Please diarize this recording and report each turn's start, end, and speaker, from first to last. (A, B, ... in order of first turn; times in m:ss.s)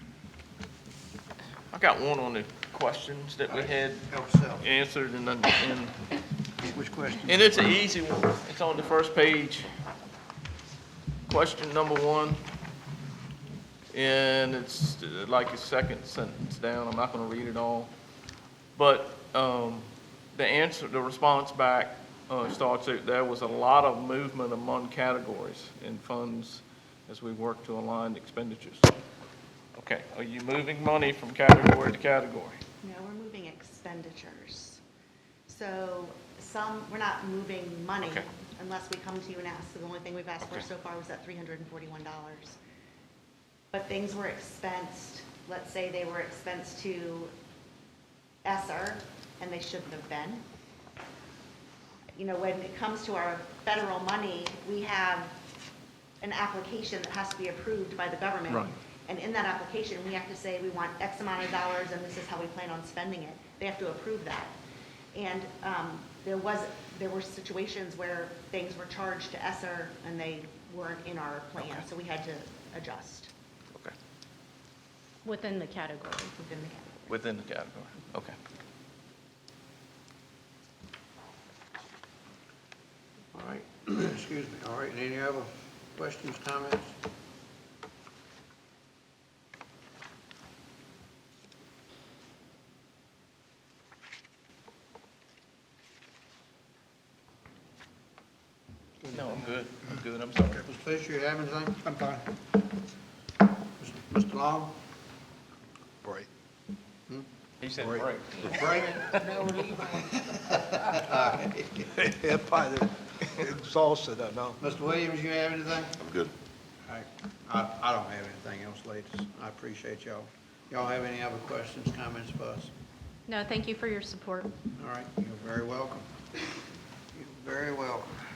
0:01.7-0:06.0 A
0:03.5-0:04.7 B
0:06.7-0:07.5 B
0:07.2-0:09.7 A
0:11.3-0:12.4 A
0:13.9-0:17.9 A
0:18.8-0:28.9 A
0:29.8-0:32.6 A
0:32.8-0:34.8 C
0:35.5-0:42.6 C
0:43.7-0:47.3 C
0:48.4-0:50.4 C
0:52.1-0:55.4 C
0:56.2-1:04.6 C
1:05.1-1:13.3 C
1:11.6-1:11.9 A
1:15.2-1:16.4 D
1:16.4-1:17.1 C
1:17.1-1:18.4 A
1:23.3-1:27.0 B
1:39.1-1:40.6 A
1:40.5-1:42.4 B
1:43.8-1:44.8 B
1:46.0-1:46.3 E
1:47.6-1:49.4 A
1:47.8-1:51.9 B
1:52.0-1:54.6 E
1:54.6-1:56.1 B
1:56.9-2:02.7 B
2:03.3-2:04.5 D
2:04.8-2:06.1 B
2:07.1-2:08.2 B